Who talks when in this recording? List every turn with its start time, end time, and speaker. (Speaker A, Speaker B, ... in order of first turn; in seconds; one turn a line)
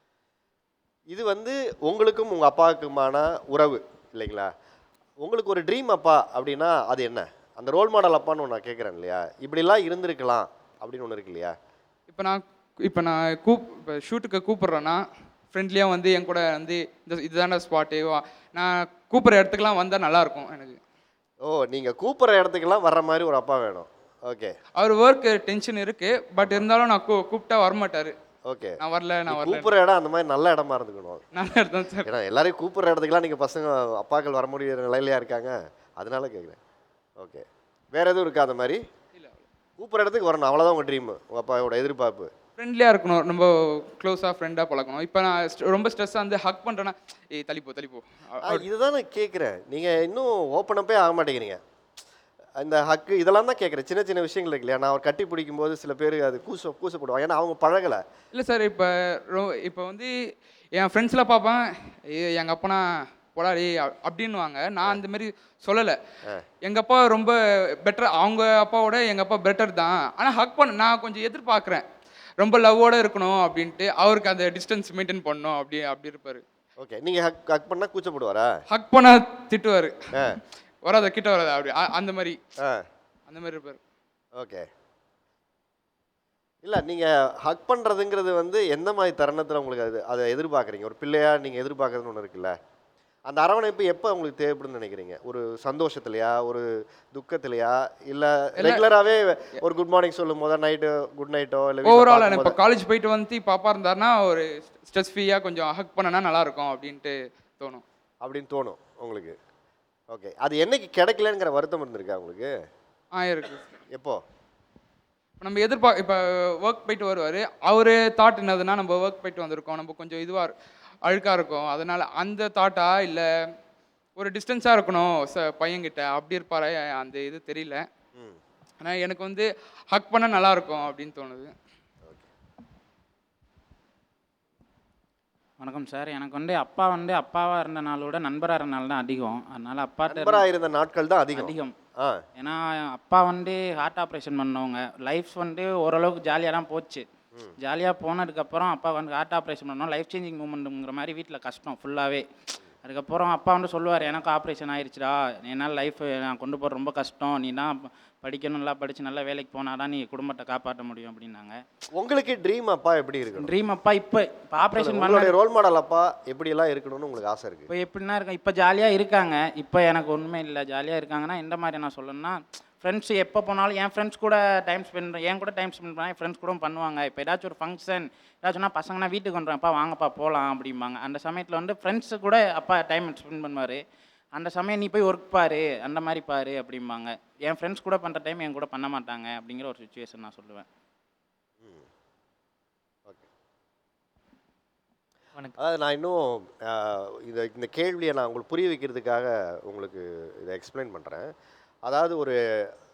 Speaker A: 1.1-4.5
Speaker A: 5.2-11.5
Speaker B: 12.1-20.8
Speaker A: 21.4-24.5
Speaker B: 24.8-28.1
Speaker A: 26.4-26.7
Speaker A: 28.5-31.2
Speaker B: 28.8-29.7
Speaker B: 31.3-32.1
Speaker A: 32.1-36.6
Speaker A: 37.2-38.8
Speaker A: 39.8-42.3
Speaker B: 42.6-48.6
Speaker A: 48.5-51.6
Speaker A: 52.6-58.0
Speaker B: 58.3-60.1
Speaker B: 60.8-61.6
Speaker B: 62.1-62.8
Speaker B: 63.3-66.0
Speaker B: 66.6-71.8
Speaker B: 72.4-76.4
Speaker A: 76.8-78.5
Speaker B: 78.7-80.0
Speaker A: 80.1-80.4
Speaker B: 80.8-82.4
Speaker B: 83.3-83.8
Speaker A: 84.4-84.7
Speaker A: 86.6-92.5
Speaker A: 93.3-102.6
Speaker B: 101.8-107.8
Speaker A: 108.2-109.3
Speaker A: 110.1-112.5
Speaker B: 113.1-113.8
Speaker A: 113.9-114.2
Speaker B: 115.4-120.5
Speaker B: 121.1-123.3
Speaker B: 124.2-127.8
Speaker B: 128.8-131.5
Speaker C: 135.6-140.4
Speaker A: 140.1-142.2
Speaker C: 141.3-141.7
Speaker C: 142.4-147.0
Speaker C: 147.6-152.2
Speaker C: 152.8-157.7
Speaker C: 158.2-161.6
Speaker A: 161.9-163.5
Speaker C: 163.4-165.3
Speaker A: 164.7-167.7
Speaker C: 167.7-183.8
Speaker C: 184.4-190.7
Speaker A: 195.6-201.3
Speaker A: 201.8-202.7